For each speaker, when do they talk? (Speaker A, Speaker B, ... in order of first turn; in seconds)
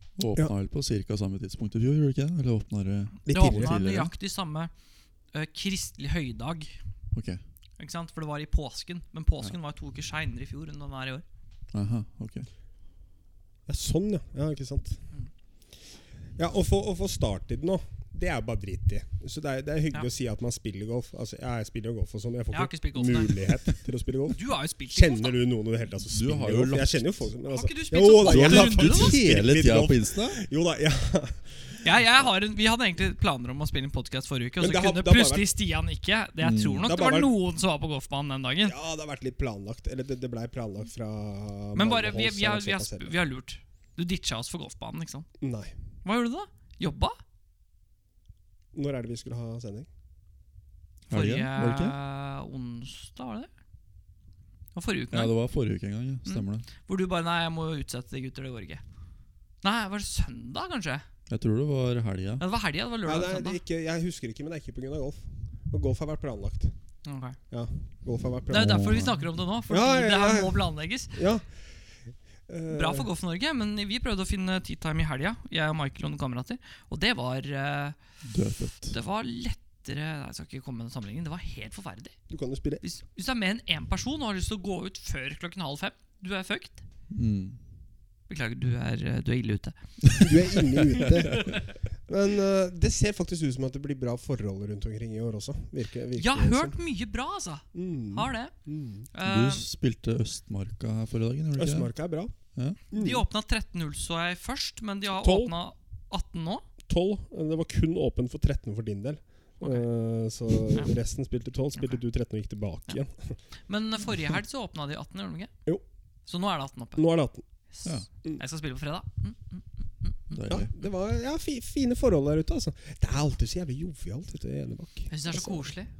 Speaker A: 0.2-4.1, 7.1-7.4, 11.7-12.5, 26.0-27.1, 28.3-30.4, 36.4-36.9, 51.1-52.0, 55.1-56.7, 61.3-62.4, 68.5-69.3, 78.2-79.0, 87.1-87.6, 99.2-101.9, 120.3-120.7
Speaker B: 3.2-3.8, 13.7-15.0, 16.4-24.4, 24.9-31.8, 34.6-35.5, 36.9-37.3, 38.6-43.1, 45.4-45.7, 48.7-49.9, 63.0-66.7, 67.5-69.0, 69.7-71.7, 72.5-73.1, 82.3-82.8, 90.2-96.8, 97.7-99.1, 101.6-102.3, 102.9-103.2, 105.2-105.5, 106.9-113.4, 117.0-117.5, 120.5-125.7
Speaker C: 3.3-4.7, 5.3-6.8, 7.8-11.2, 22.5-23.5, 24.3-25.3, 27.5-29.2, 31.8-38.7, 41.7-45.3, 46.0-47.2, 51.1-53.5, 54.7-55.3, 56.2-58.8, 59.6-61.0, 62.4-63.6, 67.0-67.4, 68.5-71.2, 72.7-78.0, 78.9-82.2, 82.8-86.8, 88.3-90.3, 96.2-98.5, 99.1-99.6, 102.9-106.7, 113.7-115.5, 116.3-117.0, 117.7-120.4, 125.1-125.9